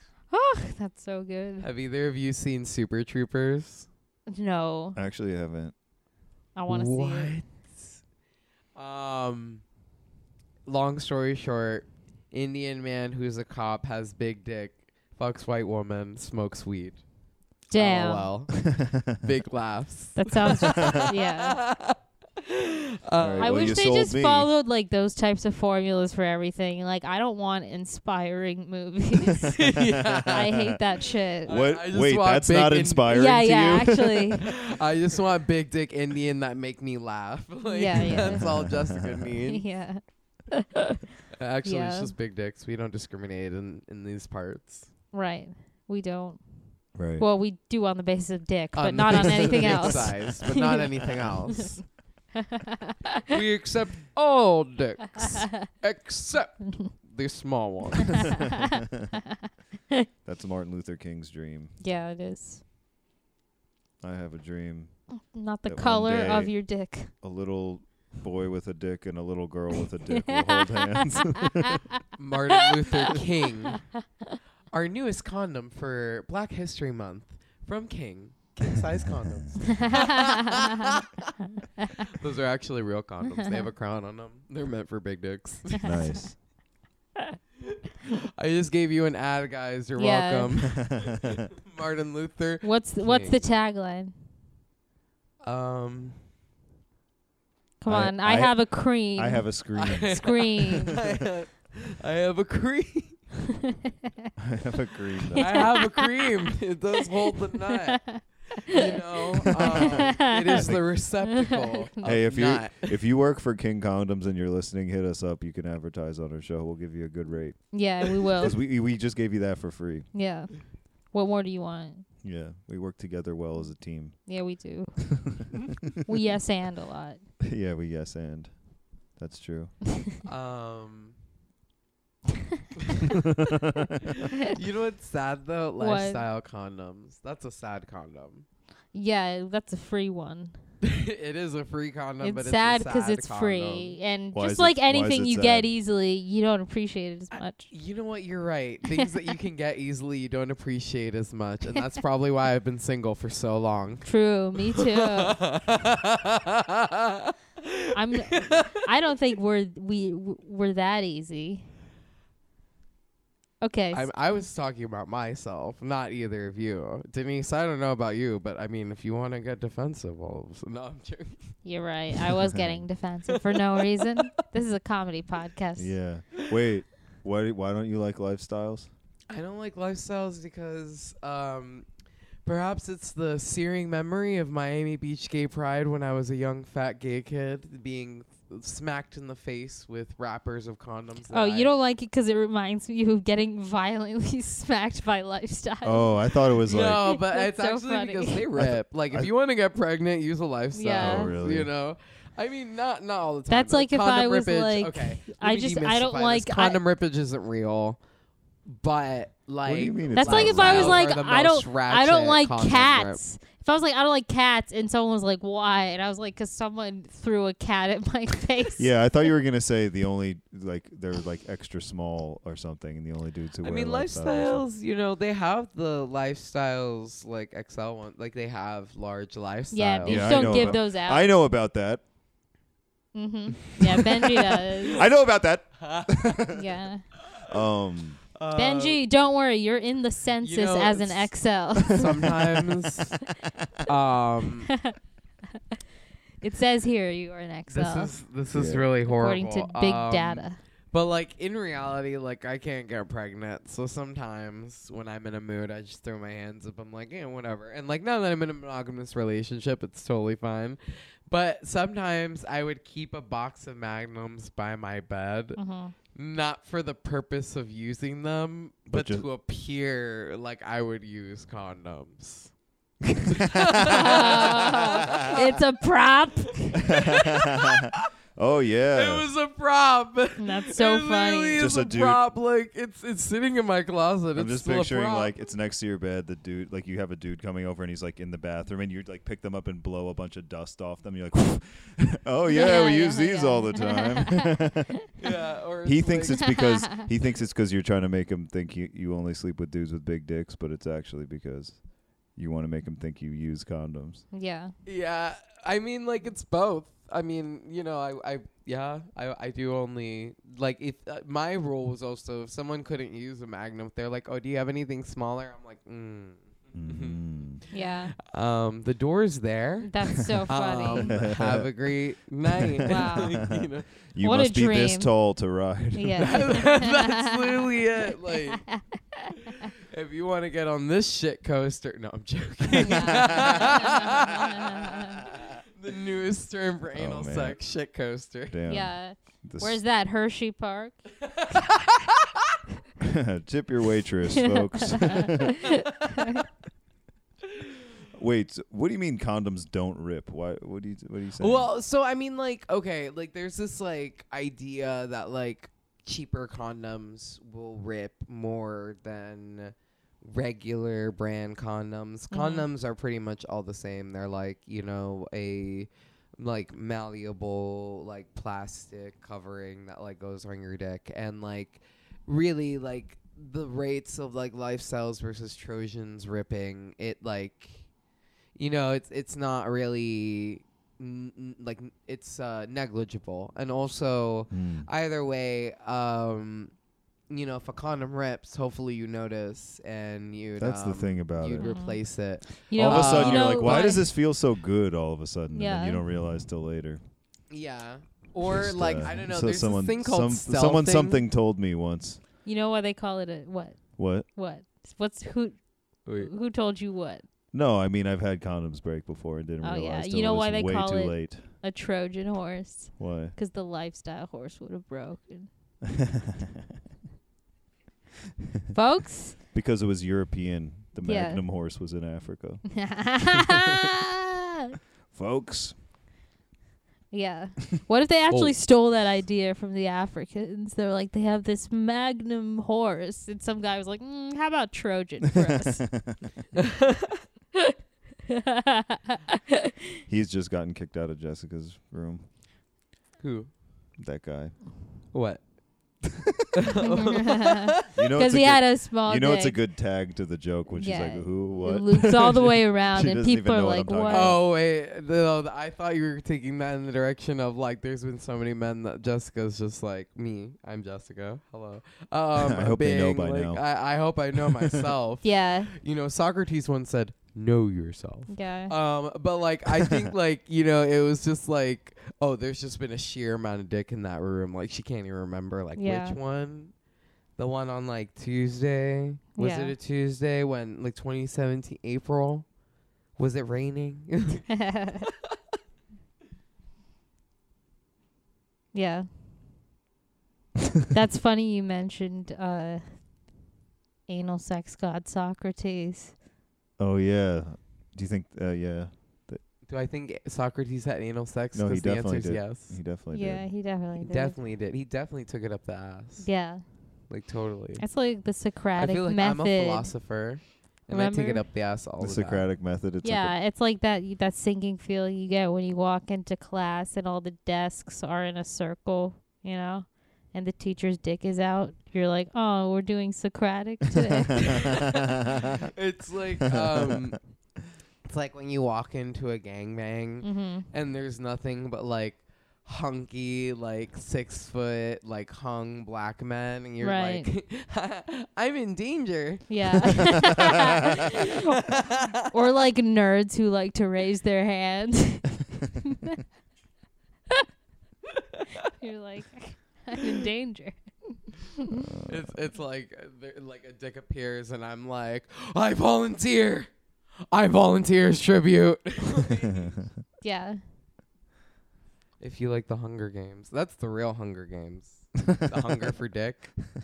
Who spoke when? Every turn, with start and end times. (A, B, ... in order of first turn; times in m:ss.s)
0:00.3-0:01.7 A
0:01.6-0:03.9 B
0:04.3-0:05.0 A
0:04.9-0:05.7 C
0:06.5-0:07.3 A
0:06.7-0:07.9 B
0:08.8-0:09.6 B
0:10.6-0:17.0 B
0:17.7-0:18.3 A
0:17.7-0:23.9 B
0:18.6-0:19.2 C
0:20.2-0:21.6 A
0:23.2-0:24.5 C
0:23.4-0:31.6 A
0:29.4-0:30.5 B
0:30.3-0:30.8 C
0:31.5-0:33.2 B
0:31.5-0:34.4 C
0:33.1-0:34.5 A
0:34.3-0:39.6 B
0:37.6-0:38.7 A
0:38.1-0:39.3 C
0:39.5-0:41.0 A
0:41.4-0:44.9 B
0:41.6-0:42.1 A
0:45.1-0:50.8 A
0:46.9-0:47.2 C
0:48.7-0:51.8 B
0:49.4-0:50.0 C
0:52.3-0:53.2 A
0:53.3-0:58.4 B
0:55.2-0:55.6 A
0:58.2-0:58.8 A
1:00.2-1:01.7 C
1:01.8-1:02.6 A
1:04.0-1:05.1 C
1:05.1-1:07.1 A
1:05.6-1:06.6 C
1:07.2-1:11.8 C
1:10.2-1:11.8 A
1:12.2-1:13.8 B
1:12.9-1:13.2 A
1:14.7-1:21.3 B
1:19.7-1:20.7 A
1:22.0-1:25.9 B
1:25.8-1:26.2 A
1:25.8-1:26.4 C
1:27.7-1:33.4 B
1:30.0-1:30.8 A
1:30.7-1:31.5 C
1:32.6-1:34.1 A
1:35.4-1:36.2 B
1:37.8-1:41.0 A
1:37.9-1:41.0 C
1:39.8-1:43.2 B
1:44.4-1:45.8 C
1:45.3-1:46.3 A
1:45.4-1:53.0 B
1:48.0-1:50.7 A
1:49.6-1:50.8 C
1:51.3-1:51.9 A
1:52.0-1:57.8 C
1:57.7-1:58.6 A
1:58.3-2:00.1 C
2:00.1-2:02.0 A
2:02.2-2:04.2 C
2:04.3-2:05.3 A
2:05.2-2:05.9 C
2:06.0-2:07.2 A
2:07.4-2:08.5 C
2:09.2-2:09.7 C
2:10.2-2:11.1 B
2:13.2-2:14.0 C
2:14.1-2:18.4 B
2:15.8-2:16.2 A
2:18.9-2:20.6 A
2:20.8-2:24.0 B
2:22.2-2:27.7 A
2:24.3-2:25.7 C
2:27.7-2:34.1 B
2:34.0-2:35.4 A
2:34.7-2:38.8 B
2:37.9-2:41.6 A
2:43.6-2:44.1 A
2:43.9-2:51.6 B
2:51.6-2:55.9 A
2:52.5-2:52.8 C
2:53.5-2:54.2 B
2:55.8-2:58.9 C
2:59.3-3:01.9 B
3:02.4-3:11.7 B
3:11.3-3:18.4 A
3:15.8-3:17.0 C
3:16.7-3:28.0 B
3:18.6-3:19.3 C
3:20.7-3:21.3 A
3:21.0-3:21.7 C
3:23.5-3:26.8 A
3:28.7-3:33.2 B
3:29.6-3:31.1 C
3:30.2-3:38.9 A
3:38.8-3:44.6 C
3:43.6-3:50.8 B
3:49.7-3:51.3 A
3:50.0-3:52.0 C
3:53.1-3:55.0 A
3:53.7-3:56.6 C
3:55.8-3:56.4 B
3:56.5-3:57.0 A
3:57.5-3:58.2 C
3:58.3-3:59.0 B
3:58.5-4:02.3 A
4:00.4-4:03.2 B
4:03.8-4:04.7 B
4:04.7-4:04.9 A
4:06.4-4:08.1 A
4:07.7-4:25.6 B
4:08.5-4:08.8 C
4:09.0-4:10.6 A
4:25.5-4:25.9 A
4:26.1-4:32.5 B
4:28.9-4:29.2 C
4:33.0-4:34.6 C
4:33.3-4:35.5 B
4:33.9-4:36.9 A
4:36.7-4:38.0 B
4:36.9-4:39.2 C
4:38.9-4:45.3 B
4:40.4-4:41.6 A
4:41.6-4:42.2 C
4:44.4-4:54.9 C
4:52.5-4:54.6 A
4:55.2-4:56.5 B
4:55.8-5:01.8 C
4:56.4-4:57.0 A
5:02.3-5:04.2 C
5:04.3-5:04.7 A
5:04.8-5:23.8 B
5:16.7-5:17.6 C
5:17.7-5:18.1 A
5:19.8-5:21.2 A
5:20.9-5:21.7 C
5:22.6-5:23.5 C
5:22.8-5:23.6 A
5:24.1-5:26.6 C
5:24.2-5:25.1 A
5:25.9-5:27.8 A
5:26.2-5:28.6 B
5:28.5-5:29.5 A
5:29.8-5:38.6 B
5:32.8-5:35.2 A
5:32.9-5:33.6 C
5:36.9-5:37.6 C
5:38.5-5:39.8 C
5:38.7-5:41.1 A
5:41.3-5:42.5 B
5:43.0-5:45.5 C
5:44.4-5:46.4 A
5:48.1-5:51.7 C
5:51.4-6:17.8 B
6:02.3-6:02.7 A
6:18.6-6:26.7 B
6:24.5-6:24.9 C
6:27.3-6:34.0 B
6:30.6-6:31.7 C
6:31.6-6:32.0 A
6:32.7-6:34.1 A
6:32.7-6:37.0 C
6:35.5-6:36.0 A
6:37.5-6:41.2 B
6:38.4-6:42.2 C
6:42.4-6:45.6 A
6:44.0-6:44.3 C
6:46.0-6:46.3 B
6:46.1-6:47.2 A
6:47.5-6:51.4 C
6:49.6-6:55.5 A
6:53.0-6:53.3 C
6:55.9-6:56.6 C
6:58.7-6:59.4 A
6:59.5-7:02.7 C
7:01.0-7:01.4 A
7:02.7-7:04.8 A
7:03.3-7:03.9 C
7:05.1-7:05.7 C
7:07.1-7:16.0 A
7:15.7-7:16.2 C
7:16.6-7:17.2 B
7:18.3-7:19.7 A
7:20.1-7:22.2 C
7:23.2-7:23.5 B
7:24.0-7:24.6 C
7:25.1-7:25.4 B
7:26.0-7:26.6 C
7:26.6-7:27.9 B
7:26.8-7:29.6 A
7:27.9-7:34.4 C
7:30.7-7:34.4 A
7:34.1-7:56.7 B
7:42.4-7:43.6 C
7:45.2-7:45.7 A
7:48.3-7:48.7 A
7:55.8-7:56.2 A
7:57.4-8:02.5 B
7:59.4-7:59.7 A
8:03.2-8:04.5 B
8:04.5-8:05.1 A
8:08.7-8:09.1 A
8:10.9-8:12.9 A
8:14.1-8:16.1 A
8:16.8-8:19.4 C
8:19.6-8:22.8 B
8:21.5-8:23.4 C
8:23.1-8:24.4 A
8:24.0-8:26.3 B
8:26.2-8:26.6 A
8:27.1-8:27.8 B
8:27.8-8:29.9 A
8:28.8-8:32.5 B
8:30.9-8:31.4 A
8:32.0-8:33.3 C
8:33.0-8:44.7 A
8:44.4-8:47.2 B
8:46.5-8:47.1 C
8:48.1-9:02.1 B
8:50.2-8:50.7 A
8:56.8-8:57.3 A
8:59.5-9:01.7 A
9:02.2-9:06.2 A
9:08.7-9:11.8 A
9:11.7-9:12.3 C
9:12.0-9:16.7 B
9:17.3-9:19.8 B
9:20.2-9:20.6 A
9:22.2-9:26.5 B